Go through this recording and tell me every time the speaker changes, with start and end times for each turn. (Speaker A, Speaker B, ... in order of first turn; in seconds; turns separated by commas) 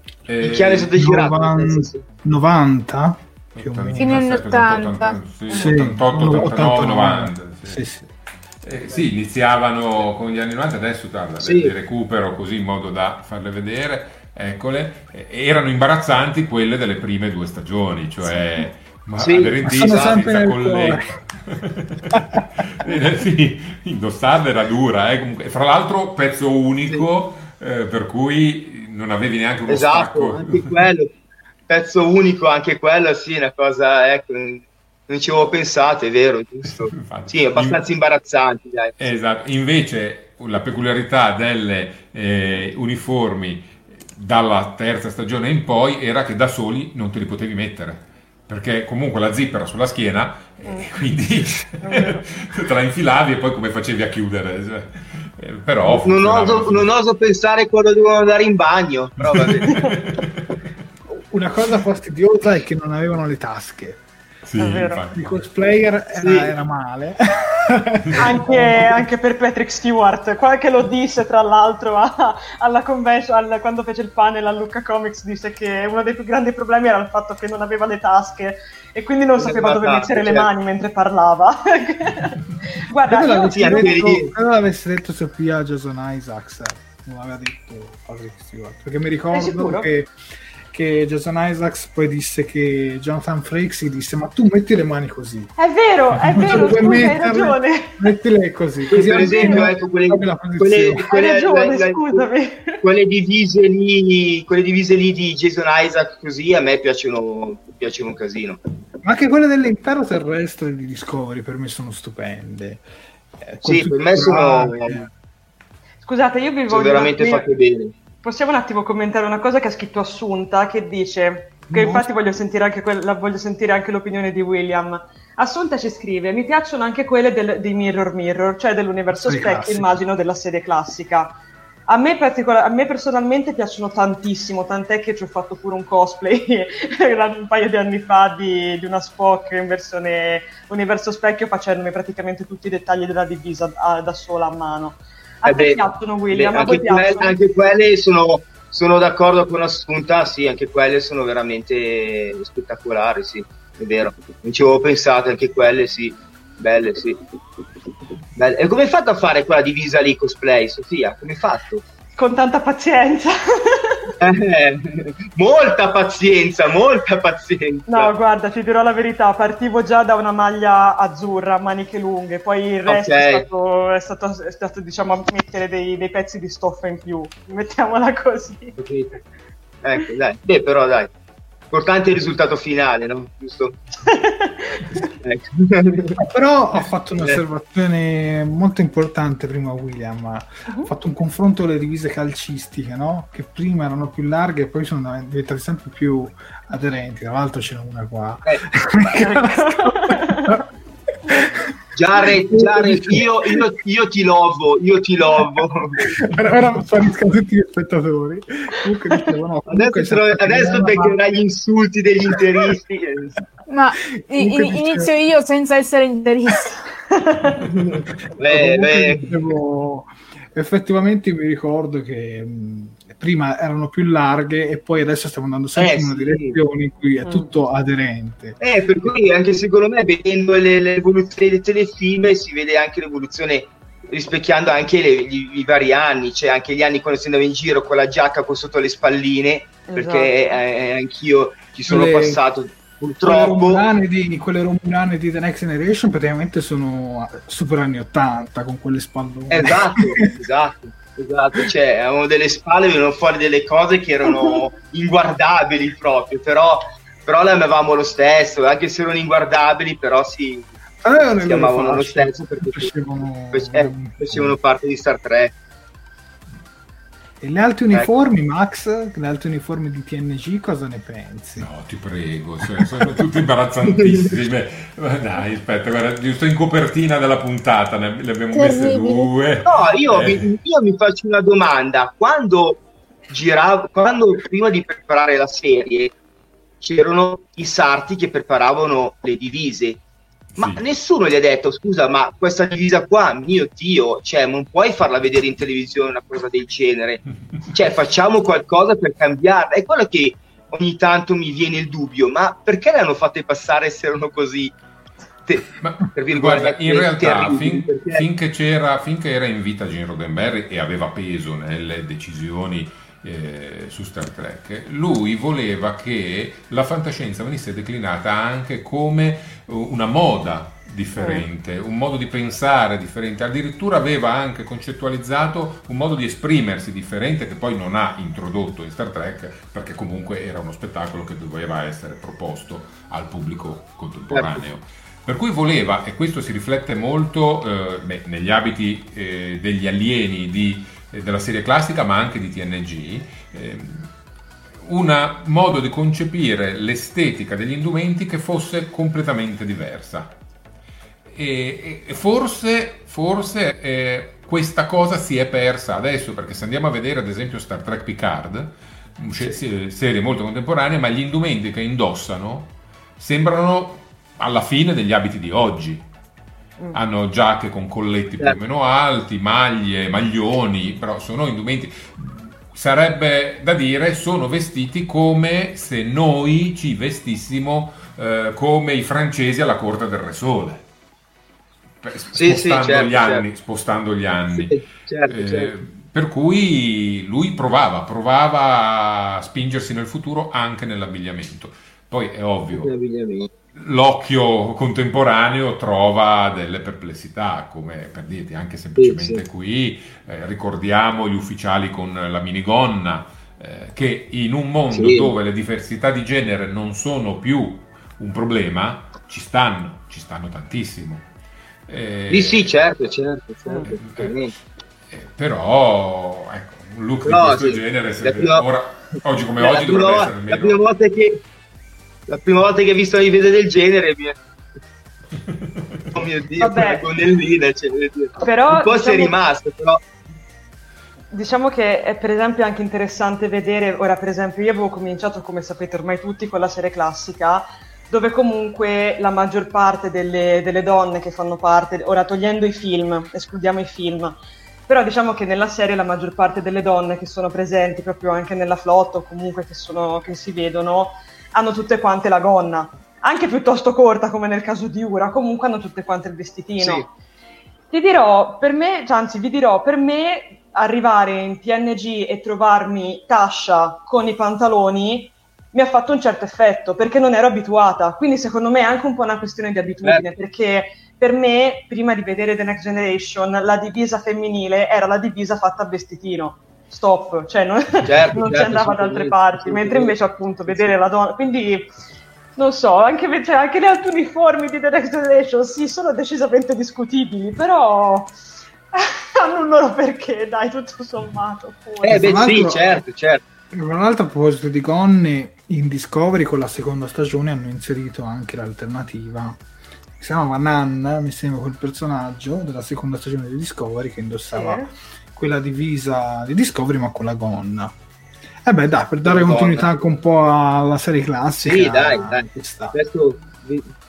Speaker A: 0.3-1.0, Speaker B: 0.4-2.0, Speaker C: 0.9-4.3, Speaker A: 3.5-7.8, Speaker D: 4.0-5.2, Speaker C: 5.5-8.1, Speaker A: 8.6-30.8, Speaker B: 11.4-11.7, Speaker B: 19.2-20.5, Speaker C: 19.6-21.1, Speaker B: 29.7-31.1, Speaker B: 31.7-39.1, Speaker A: 36.9-37.8, Speaker A: 39.0-56.9, Speaker E: 50.6-51.0, Speaker E: 51.8-52.2, Speaker B: 55.9-59.7, Speaker A: 59.3-60.5, Speaker E: 59.6-59.9, Speaker C: 61.1-64.0, Speaker A: 64.5-65.2, Speaker E: 64.6-65.0, Speaker C: 65.1-69.1, Speaker B: 66.2-66.5, Speaker A: 68.0-68.4, Speaker E: 68.2-84.0, Speaker B: 79.4-80.5, Speaker C: 83.1-90.1, Speaker B: 83.5-84.3, Speaker E: 89.3-89.9, Speaker C: 90.7-95.5, Speaker E: 95.6-98.0, Speaker C: 96.2-101.1, Speaker B: 98.9-102.3, Speaker E: 98.9-99.7, Speaker E: 101.0-102.8, Speaker B: 102.8-108.6, Speaker C: 109.0-112.8, Speaker C: 113.4-115.1, Speaker B: 113.6-115.0, Speaker E: 116.0-117.5, Speaker B: 116.7-118.0, Speaker E: 118.2-131.4, Speaker C: 121.7-122.1, Speaker C: 129.1-130.0, Speaker E: 131.9-147.5, Speaker B: 145.4-157.2, Speaker B: 158.4-161.8, Speaker E: 162.2-164.1, Speaker B: 164.2-168.1, Speaker E: 167.9-178.8, Speaker B: 172.9-173.5, Speaker B: 178.8-179.2, Speaker B: 179.8-181.1, Speaker B: 181.7-183.8, Speaker E: 184.1-184.8, Speaker B: 185.2-186.2, Speaker C: 186.2-200.6, Speaker E: 199.1-200.6, Speaker C: 201.3-201.6, Speaker B: 202.0-206.2, Speaker C: 202.2-203.6, Speaker C: 206.1-211.2, Speaker B: 209.7-213.3, Speaker D: 213.7-216.8, Speaker C: 214.2-215.1, Speaker E: 217.2-217.7, Speaker B: 217.8-219.3, Speaker C: 218.4-228.6, Speaker B: 225.8-226.6, Speaker E: 227.2-227.5, Speaker B: 228.6-243.8, Speaker E: 239.8-240.4, Speaker C: 241.9-242.4, Speaker C: 243.2-250.0, Speaker B: 249.5-260.7, Speaker C: 261.0-264.6, Speaker B: 261.4-262.9, Speaker B: 263.5-265.5, Speaker C: 267.4-271.7, Speaker A: 271.6-280.5, Speaker B: 274.0-274.3, Speaker D: 278.5-279.3, Speaker B: 279.6-286.1, Speaker B: 286.8-290.0, Speaker A: 290.6-290.8, Speaker B: 290.6-297.2, Speaker B: 297.7-304.8, Speaker B: 305.5-308.3, Speaker A: 305.8-344.1, Speaker E: 321.2-321.4, Speaker B: 334.3-334.6, Speaker A: 344.8-350.4, Speaker A: 351.3-366.1, Speaker A: 366.9-380.8, Speaker A: 382.0-392.9, Speaker B: 382.3-383.4, Speaker B: 384.5-385.7, Speaker B: 392.7-393.5, Speaker A: 393.8-411.3, Speaker B: 399.0-399.4, Speaker B: 404.9-405.4, Speaker A: 411.9-412.8, Speaker B: 412.3-414.5, Speaker A: 414.0-414.4, Speaker A: 415.1-420.8, Speaker B: 417.2-421.4, Speaker B: 422.3-424.4, Speaker B: 426.1-430.0, Speaker E: 426.6-427.0, Speaker E: 428.4-429.3, Speaker E: 431.3-457.1, Speaker B: 456.8-457.1, Speaker E: 457.9-481.9, Speaker B: 478.1-480.2, Speaker B: 480.7-480.9, Speaker E: 482.6-488.4, Speaker E: 488.9-492.4, Speaker B: 492.0-493.4, Speaker C: 492.1-493.0, Speaker C: 493.7-499.6, Speaker C: 500.2-508.0, Speaker E: 504.5-504.9, Speaker C: 508.6-513.0, Speaker B: 509.2-509.9, Speaker B: 511.6-513.9